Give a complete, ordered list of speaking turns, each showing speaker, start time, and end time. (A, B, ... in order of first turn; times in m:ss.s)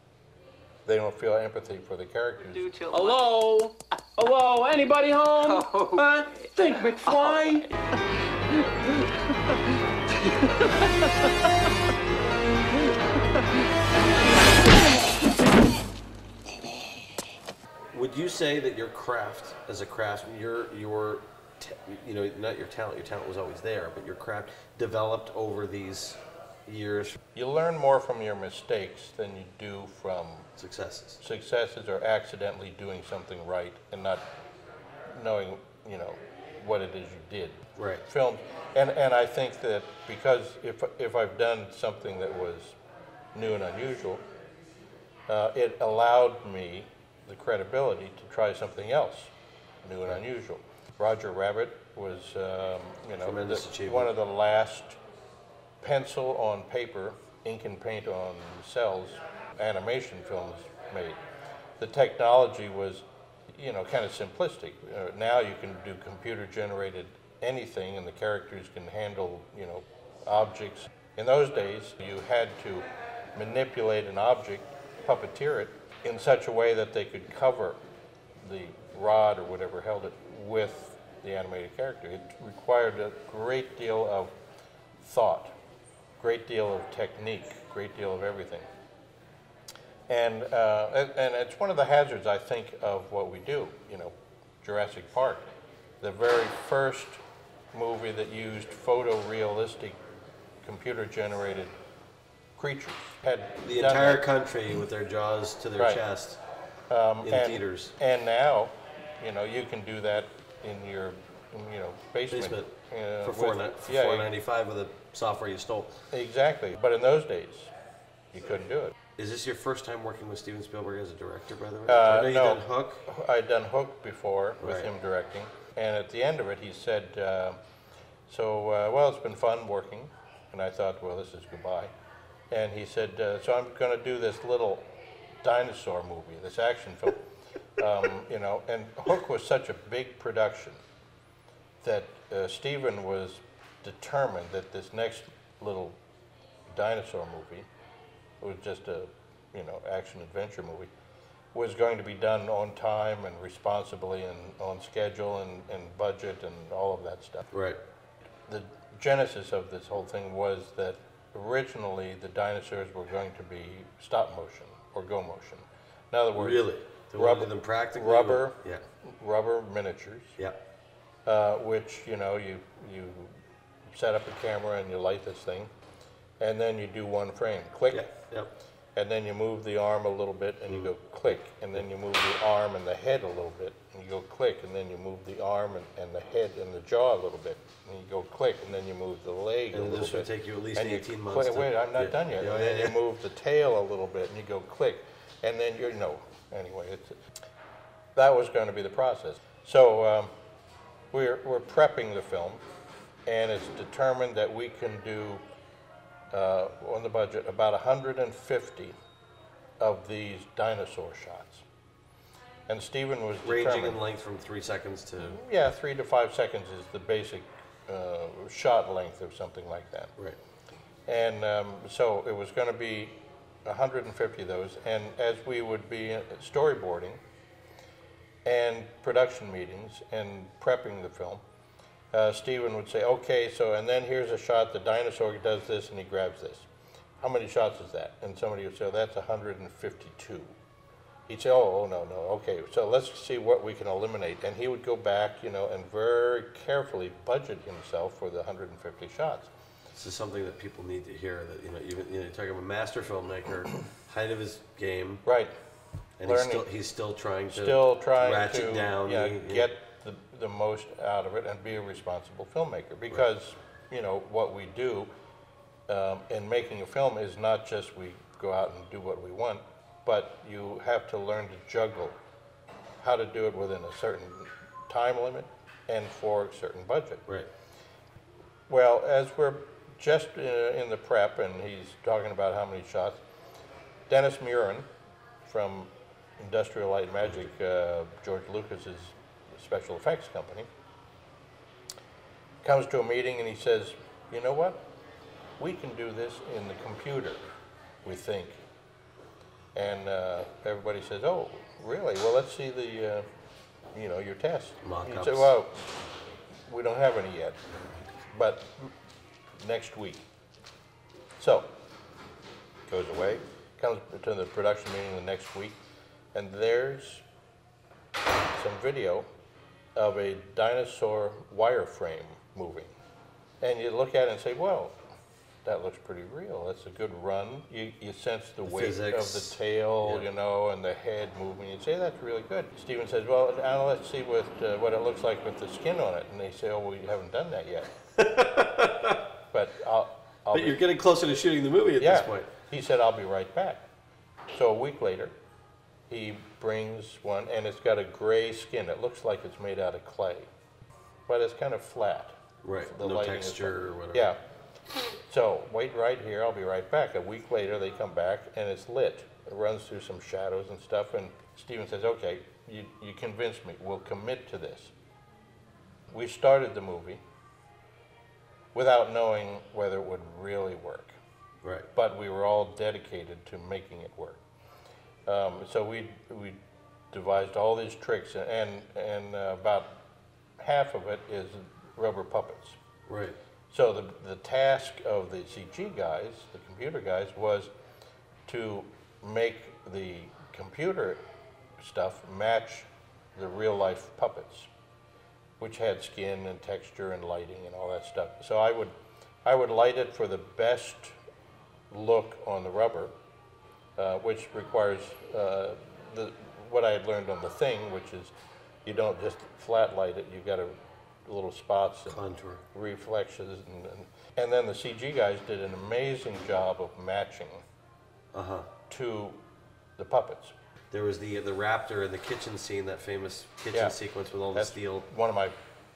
0:00.8-0:02.8 A
0:02.7-0:07.8 B
0:08.5-0:09.6 B
0:10.4-0:11.3 B
0:17.9-0:27.2 C
0:27.3-0:30.5 A
0:30.6-0:31.2 C
0:31.2-0:34.2 A
0:35.1-0:42.8 A
0:37.8-0:38.0 C
0:43.3-0:44.2 A
0:45.3-0:49.3 A
0:49.8-0:55.0 A
0:53.2-0:54.1 C
0:55.8-1:01.2 A
1:01.8-1:17.8 A
1:18.4-1:24.4 A
1:25.0-1:25.5 A
1:26.2-1:28.7 A
1:30.1-1:35.5 A
1:36.0-1:37.2 A
1:37.7-1:40.0 A
1:40.6-1:41.8 A
1:42.6-1:44.2 A
1:43.6-1:46.4 C
1:45.8-1:46.0 A
1:46.9-1:54.3 A
1:47.2-1:48.0 C
1:52.3-1:52.7 C
1:53.2-1:56.0 C
1:56.1-1:57.7 A
1:58.3-1:58.9 A
1:59.2-2:03.0 C
2:01.9-2:07.6 A
2:04.6-2:04.9 C
2:08.3-2:11.9 A
2:12.5-2:14.9 A
2:15.4-2:17.2 A
2:17.8-2:20.8 A
2:21.8-2:26.0 A
2:26.7-2:27.7 A
2:28.4-2:30.9 A
2:31.5-2:37.5 A
2:37.5-2:37.8 C
2:38.5-2:50.4 A
2:46.3-2:48.8 C
2:51.2-2:53.3 A
2:53.9-2:55.7 A
2:56.4-2:58.1 A
2:57.9-2:58.5 C
2:59.0-3:17.2 A
3:09.7-3:13.0 C
3:18.1-3:20.3 A
3:21.1-3:22.6 A
3:23.3-3:25.4 A
3:26.3-3:29.0 A
3:29.8-3:31.6 A
3:32.7-3:34.0 A
3:33.4-3:35.4 C
3:35.2-3:40.1 A
3:41.1-3:47.2 A
3:48.4-3:51.4 A
3:52.1-3:56.7 A
3:57.2-4:00.5 A
4:01.3-4:09.5 A
4:09.9-4:15.2 C
4:15.2-4:15.5 A
4:16.2-4:19.7 C
4:16.2-4:16.7 A
4:17.5-4:25.1 A
4:25.9-4:32.2 A
4:33.0-4:37.2 A
4:38.7-4:43.2 A
4:44.1-4:44.9 A
4:45.4-4:50.7 A
4:52.6-4:54.9 A
4:55.6-4:57.4 A
4:58.0-4:58.6 A
4:59.8-5:03.2 A
5:03.9-5:05.8 A
5:04.8-5:05.5 C
5:06.7-5:07.6 A
5:08.3-5:08.9 A
5:09.6-5:10.2 A
5:11.4-5:11.7 A
5:12.9-5:15.8 A
5:16.3-5:17.2 A
5:18.5-5:19.3 A
5:20.0-5:23.0 A
5:23.6-5:25.0 A
5:25.6-5:37.9 A
5:28.6-5:30.3 C
5:38.1-5:39.3 C
5:39.5-5:40.8 A
5:40.5-5:42.5 C
5:42.0-5:43.9 A
5:44.5-5:45.4 A
5:46.1-5:50.5 A
5:51.3-5:54.4 A
5:52.6-5:54.3 C
5:55.3-6:04.9 A
6:06.1-6:07.2 A
6:08.7-6:11.2 A
6:11.6-6:11.9 C
6:11.9-6:14.4 A
6:15.2-6:16.6 A
6:17.1-6:19.9 A
6:20.6-6:22.8 A
6:23.1-6:23.4 C
6:23.7-6:27.7 A
6:28.5-6:31.2 A
6:31.8-6:34.7 A
6:35.6-6:38.9 A
6:39.4-6:41.2 A
6:41.9-6:43.1 A
6:44.0-6:48.3 A
6:48.8-6:57.6 A
6:52.1-6:52.6 C
6:58.3-6:58.7 C
6:58.9-6:59.4 A
7:00.0-7:00.5 A
7:00.9-7:05.0 C
7:04.5-7:05.5 A